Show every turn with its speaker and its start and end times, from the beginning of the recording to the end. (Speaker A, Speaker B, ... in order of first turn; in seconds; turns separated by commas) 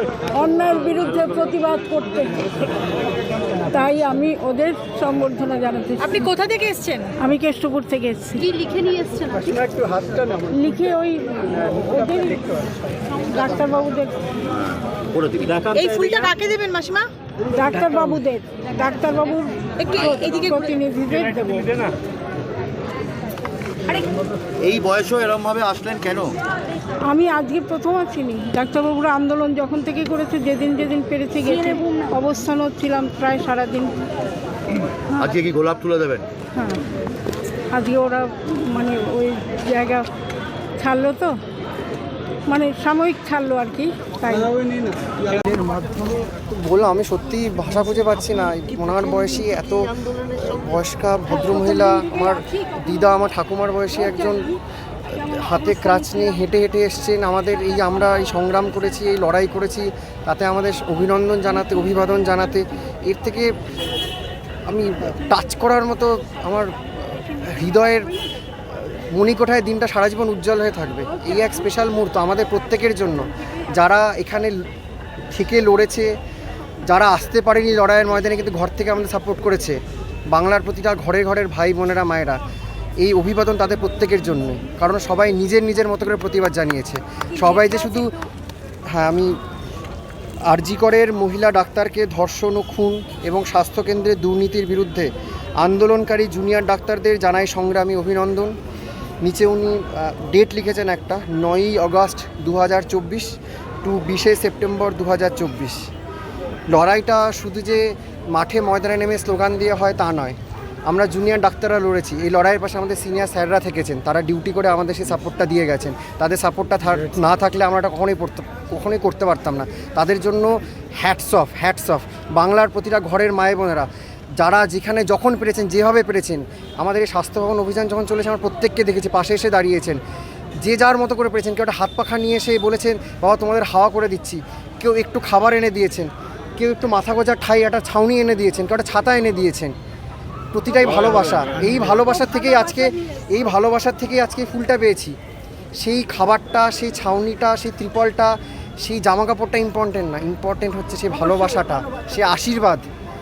Speaker A: 0.3-2.5, Speaker A: 3.6-6.2, Speaker B: 6.0-7.2, Speaker A: 7.2-8.5, Speaker B: 8.4-9.6, Speaker A: 10.3-12.6, Speaker A: 13.1-14.1, Speaker C: 14.9-15.8, Speaker B: 15.7-17.1, Speaker A: 17.5-21.9, Speaker B: 19.8-20.7, Speaker C: 24.6-26.4, Speaker A: 27.0-33.9, Speaker C: 35.2-36.3, Speaker A: 36.5-36.8, Speaker A: 37.7-40.1, Speaker A: 40.8-41.4, Speaker A: 42.5-44.8, Speaker D: 45.5-63.5, Speaker D: 64.7-68.2, Speaker D: 68.7-74.6, Speaker D: 75.3-76.1, Speaker D: 76.8-79.8, Speaker D: 80.3-82.4, Speaker D: 83.0-88.2, Speaker D: 88.9-89.4, Speaker D: 90.5-98.5, Speaker D: 99.2-105.9, Speaker D: 106.7-110.4, Speaker D: 110.9-123.9, Speaker D: 124.4-130.0, Speaker D: 130.6-139.7, Speaker D: 140.5-145.2, Speaker D: 145.8-152.8